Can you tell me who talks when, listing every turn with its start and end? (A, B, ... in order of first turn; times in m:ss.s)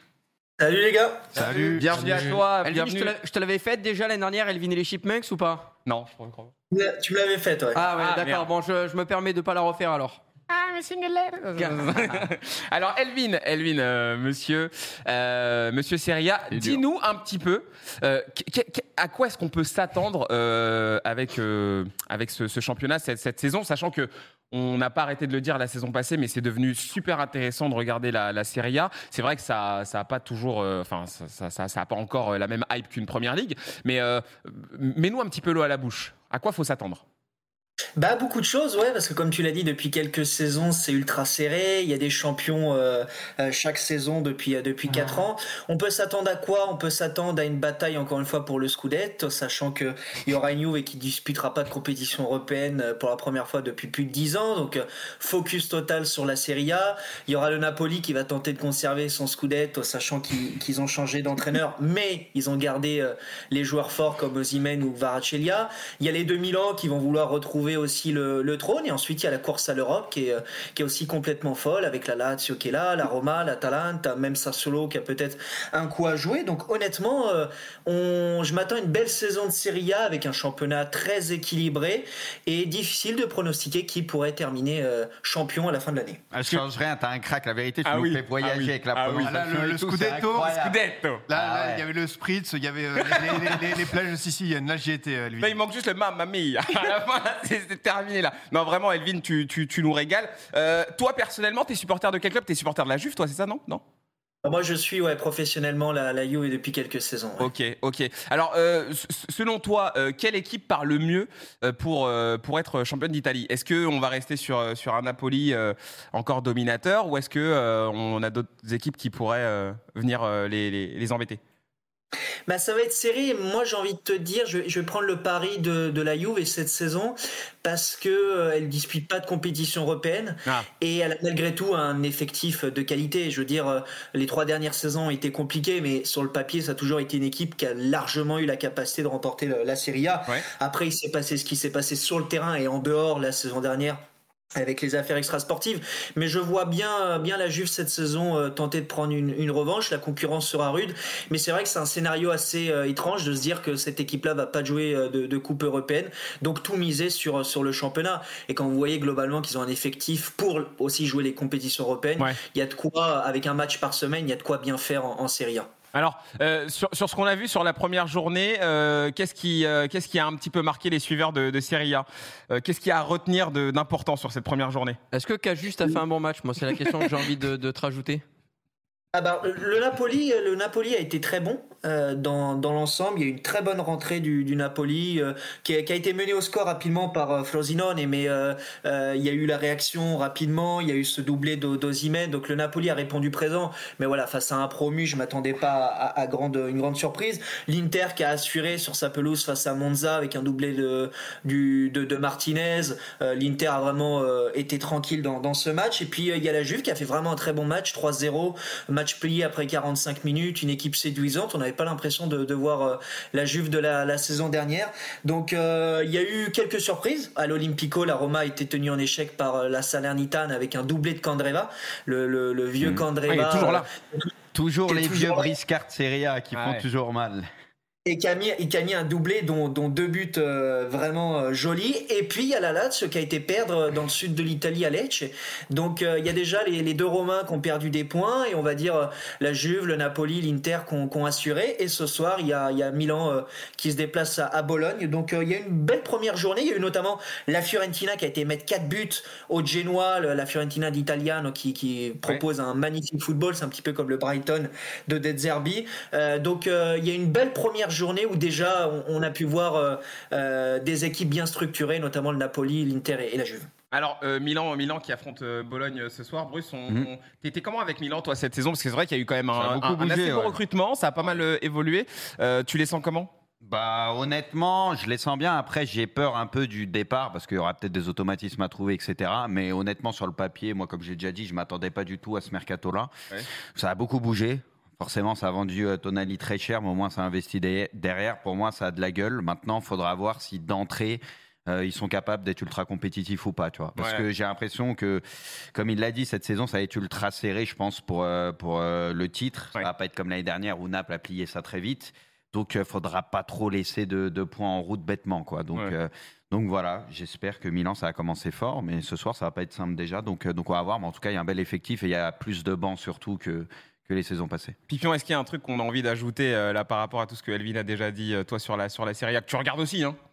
0:00.6-0:01.3 A
0:01.3-0:01.9 B
0:01.4-0:05.7 C
0:01.8-0:03.1 D
0:05.8-0:06.5 D
0:06.7-0:07.8 A
0:07.7-0:10.2 C
0:08.0-0:08.5 D
0:10.5-0:37.0 D
0:11.6-0:12.2 C
0:38.0-1:26.2 A
1:26.3-1:31.8 E
1:27.8-1:29.4 D
1:29.2-1:30.6 B
1:30.4-1:31.2 D
1:31.3-1:35.6 B
1:33.0-1:33.6 D
1:35.4-1:43.8 D
1:44.4-1:47.5 A
1:47.4-2:01.4 D
2:02.5-2:24.0 A
2:24.6-2:45.7 A
2:45.9-2:55.0 D
2:55.1-2:58.2 C
2:59.1-3:44.4 A
3:42.8-3:43.0 E
3:43.3-3:43.9 D
3:44.5-3:47.5 E
3:44.9-3:45.5 A
3:46.5-3:46.8 D
3:48.0-4:23.7 A
4:23.9-4:33.3 D
4:29.5-4:30.6 E
4:33.6-4:43.1 E
4:43.7-5:14.8 E
4:54.0-4:54.2 D
5:14.9-5:20.2 D